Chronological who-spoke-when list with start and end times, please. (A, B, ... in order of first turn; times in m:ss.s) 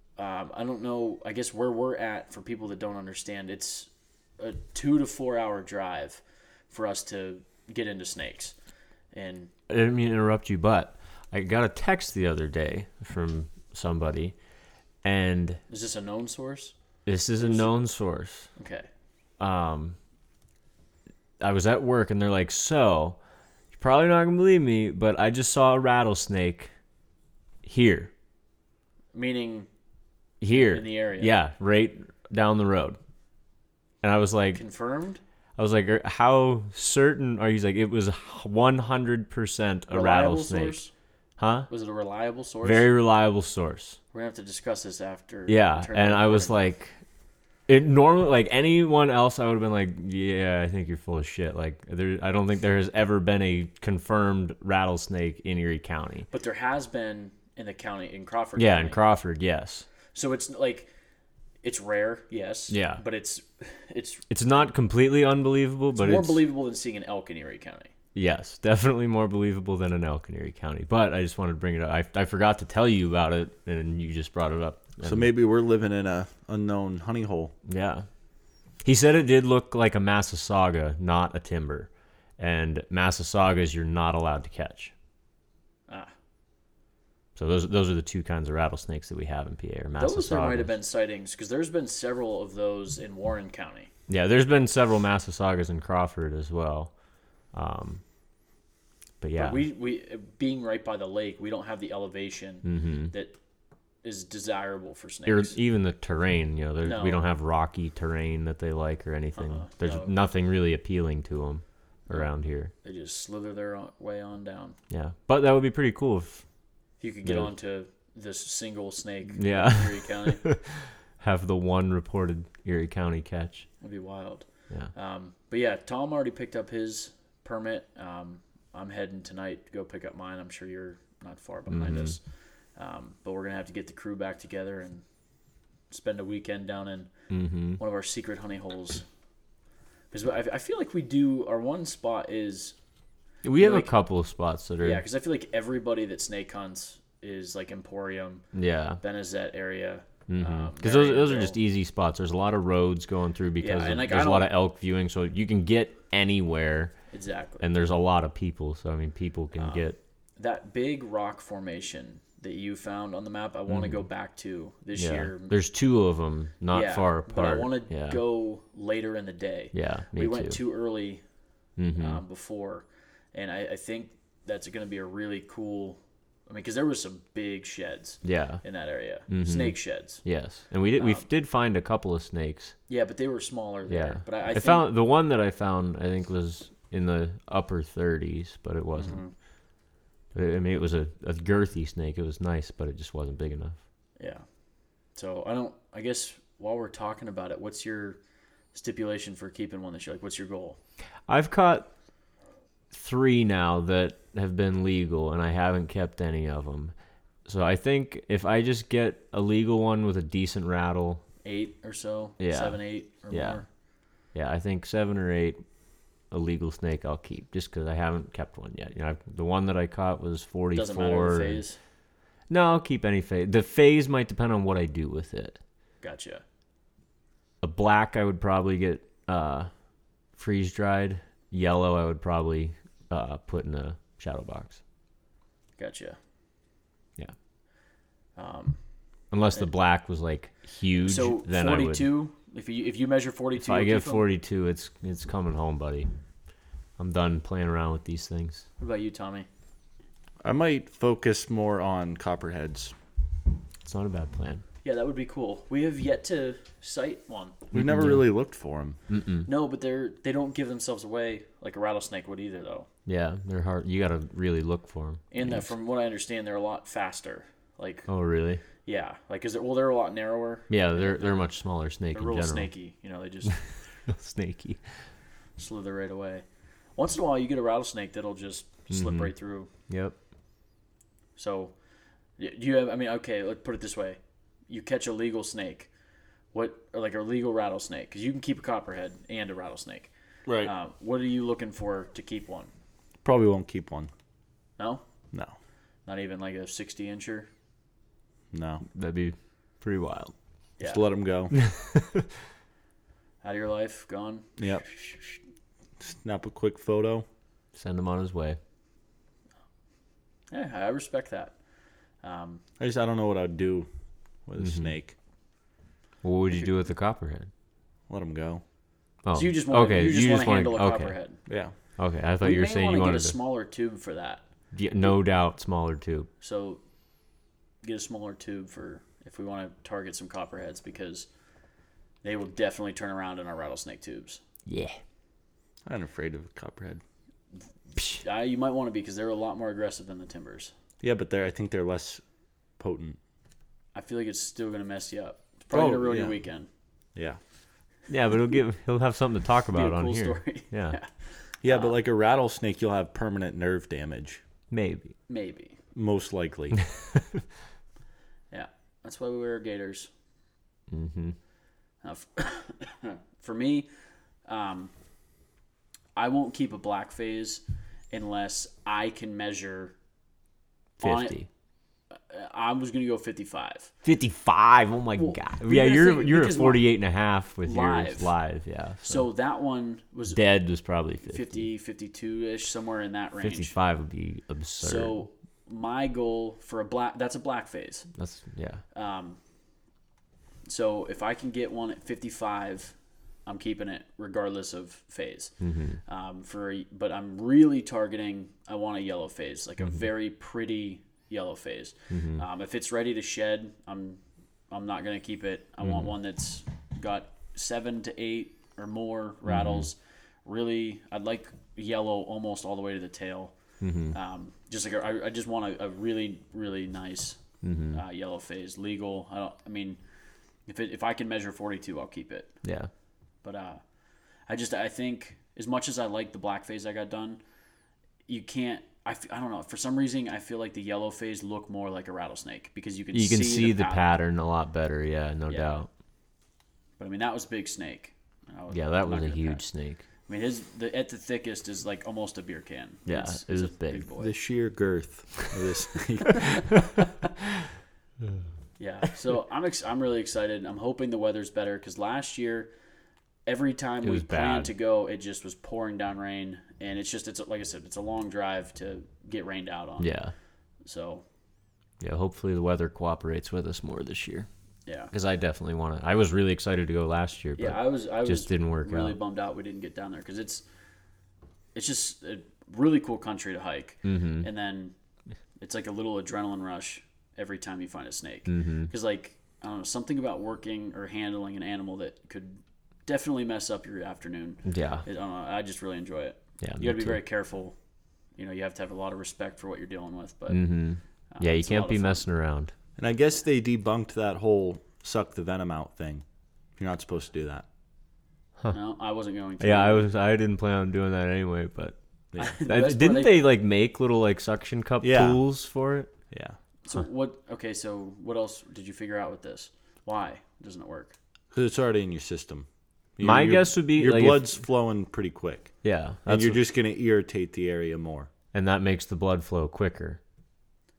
0:00.2-0:08.6 A
0:09.1-0:09.5 A
0:09.7-0:14.4 B
0:15.0-0:15.6 B
0:15.7-0:16.7 A
0:17.1-0:18.5 B
0:17.4-0:17.8 A
0:18.6-0:18.9 A
0:19.4-0:20.0 B
0:21.4-0:23.2 B
0:23.7-0:26.7 B
0:27.6-0:28.1 B
0:29.1-0:29.7 A
0:30.4-0:33.0 B
0:30.5-0:31.3 A
0:34.0-0:34.6 B
0:34.5-0:35.2 A
0:35.6-0:40.8 B
0:39.9-0:40.9 A
0:41.4-0:41.7 B
0:41.7-0:42.9 A
0:42.6-0:44.0 B
0:44.1-0:46.6 A
0:45.5-0:47.0 B
0:47.7-0:56.3 B
0:56.3-0:59.0 A
0:58.6-0:59.9 B
1:00.1-1:00.9 A
1:01.6-1:04.2 A
1:02.7-1:03.0 B
1:04.3-1:06.4 B
1:06.0-1:07.9 A
1:08.2-1:15.3 B
1:15.0-1:17.5 C
1:17.7-1:18.1 B
1:18.8-1:24.9 B
1:27.4-1:30.8 B
1:30.0-1:33.9 A
1:34.1-1:36.9 B
1:37.5-1:38.0 B
1:39.2-1:39.7 B
1:39.4-1:43.3 A
1:42.6-1:43.1 B
1:44.0-1:45.6 A
1:45.3-1:52.7 B
1:46.8-1:47.2 A
1:49.4-1:50.1 A
1:52.1-1:54.8 A
1:54.9-1:56.4 B
1:57.0-2:00.4 A
1:57.2-1:57.5 B
1:59.4-2:03.7 B
2:03.8-2:15.0 A
2:11.7-2:12.2 B
2:15.9-2:17.1 A
2:17.3-2:17.8 B
2:17.8-2:19.0 A
2:20.1-2:22.8 A
2:23.4-2:25.0 B
2:23.6-2:23.9 A
2:24.8-2:28.4 A
2:28.5-2:29.0 B
2:29.0-2:31.6 A
2:30.3-2:37.1 B
2:33.6-2:34.5 A
2:37.1-2:37.6 A
2:37.6-2:40.0 B
2:39.6-2:45.6 A
2:43.7-2:44.1 B
2:45.0-2:48.2 B
2:46.7-2:51.2 A
2:49.7-2:50.6 B
2:51.8-2:52.2 B
2:52.0-3:00.3 A
2:58.2-2:58.6 B
2:59.3-3:02.8 B
3:01.0-3:01.3 A
3:02.9-3:04.9 A
3:03.9-3:09.2 B
3:09.0-3:09.3 A
3:10.3-3:13.8 B
3:14.2-3:14.4 A
3:15.1-3:18.2 A
3:18.7-3:20.8 A
3:21.3-3:21.9 B
3:22.9-3:26.9 B
3:27.5-3:31.2 B
3:31.4-3:33.7 A
3:32.4-3:33.6 B
3:34.3-3:35.6 B
3:36.3-3:41.6 B
3:40.7-3:41.8 A
3:42.5-3:45.6 B
3:46.0-3:46.4 A
3:47.6-3:49.7 B
3:50.4-3:54.8 B
3:55.8-3:56.2 A
3:58.4-3:58.8 A
3:59.3-4:02.1 B
4:01.0-4:04.2 A
4:03.6-4:06.1 B
4:07.0-4:08.7 B
4:08.8-4:09.5 A
4:10.4-4:12.9 C
4:13.8-4:14.6 B
4:14.8-4:17.6 A
4:17.7-4:19.0 C
4:17.7-4:18.2 B
4:19.1-4:19.5 B
4:19.5-4:22.9 A
4:23.1-4:25.7 B
4:25.3-4:28.1 A
4:28.1-4:28.6 B
4:28.8-4:31.5 A
4:30.7-4:32.7 B
4:32.1-4:33.6 A
4:33.5-4:35.1 B
4:35.6-4:36.4 A
4:37.0-4:39.7 A
4:38.9-4:39.3 B
4:39.9-4:40.2 B
4:41.4-4:41.8 A
4:42.4-4:45.9 A
4:46.5-4:52.7 A
4:50.5-4:50.7 C
4:53.2-4:54.1 C
4:54.8-4:55.0 A
4:56.1-4:57.5 A
4:58.5-4:58.8 C
4:58.9-5:00.3 B
5:00.8-5:01.0 A
5:00.8-5:01.6 C
5:01.5-5:02.2 B
5:03.4-5:05.4 A
5:04.6-5:04.9 C
5:06.0-5:07.2 C
5:07.7-5:08.6 B
5:10.5-5:11.6 A
5:12.2-5:12.6 A
5:12.8-5:13.9 C
5:14.5-5:15.2 C
5:14.6-5:14.9 B
5:16.2-5:17.5 B
5:18.1-5:18.6 C
5:19.2-5:21.1 B
5:19.3-5:21.4 A
5:21.5-5:21.7 C
5:22.0-5:23.4 B
5:22.4-5:24.5 A
5:24.7-5:26.3 B
5:26.4-5:26.8 A
5:27.8-5:31.3 A
5:32.2-5:34.4 A
5:34.7-5:35.0 B
5:35.9-5:37.0 C
5:38.0-5:40.7 A
5:41.0-5:42.2 C
5:42.8-5:43.2 C
5:43.9-5:46.7 A
5:45.7-5:46.4 C
5:47.2-5:47.4 C
5:48.1-5:51.0 B
5:49.7-5:52.0 A
5:51.6-5:54.4 C
5:54.7-5:55.2 B
5:55.3-5:55.8 A
5:56.0-5:56.8 C
5:58.5-6:00.1 A
6:00.9-6:01.4 B
6:02.0-6:03.9 A
6:04.5-6:04.9 A
6:06.2-6:10.0 A
6:11.0-6:11.5 B
6:11.0-6:11.4 A
6:12.1-6:13.9 A
6:14.0-6:19.3 B
6:15.2-6:16.8 A
6:17.6-6:18.3 A
6:19.0-6:20.4 A
6:20.3-6:21.6 B
6:21.2-6:23.8 A
6:23.4-6:25.2 B
6:24.8-6:28.1 A
6:28.2-6:28.8 B
6:28.9-6:29.4 A
6:30.7-6:33.0 A
6:33.5-6:53.6 A
6:35.6-6:36.0 B
6:39.8-6:40.1 B
6:42.1-6:42.4 B
6:45.8-6:46.1 B
6:49.5-6:49.9 B
6:53.8-6:54.2 B
6:54.1-6:57.4 A
6:57.6-6:58.0 B
6:57.9-7:00.0 A
7:00.7-7:02.5 A
7:02.6-7:02.9 B
7:03.4-7:03.8 A
7:04.5-7:07.4 A
7:08.3-7:14.0 A
7:13.1-7:15.9 B
7:15.5-7:15.9 A
7:17.0-7:19.7 A
7:18.7-7:20.0 B
7:20.3-7:24.3 A
7:23.1-7:24.1 B
7:24.2-7:26.7 C
7:28.8-7:32.7 A
7:33.5-7:40.1 A
7:34.0-7:34.7 B
7:40.0-7:40.3 B
7:40.8-7:41.2 A
7:42.0-7:44.5 B
7:44.9-7:45.1 A
7:45.1-7:49.2 B
7:47.6-7:50.6 A
7:51.8-7:54.9 A
7:54.0-7:54.5 B
7:55.6-8:07.8 A
7:58.5-7:58.9 B
8:04.6-8:05.0 B
8:06.6-8:07.2 B
8:08.4-8:10.7 A
8:10.5-8:12.7 B
8:11.3-8:12.2 A
8:13.0-8:16.2 C
8:16.8-8:17.6 C
8:18.7-8:20.1 A
8:19.6-8:22.0 B
8:22.4-8:23.3 A
8:22.5-8:26.1 B
8:25.0-8:25.4 C
8:26.3-8:26.6 C
8:26.8-8:31.2 A
8:31.5-8:35.8 C
8:33.2-8:34.6 B
8:35.8-8:36.6 B
8:36.3-8:38.3 C
8:38.5-8:40.2 B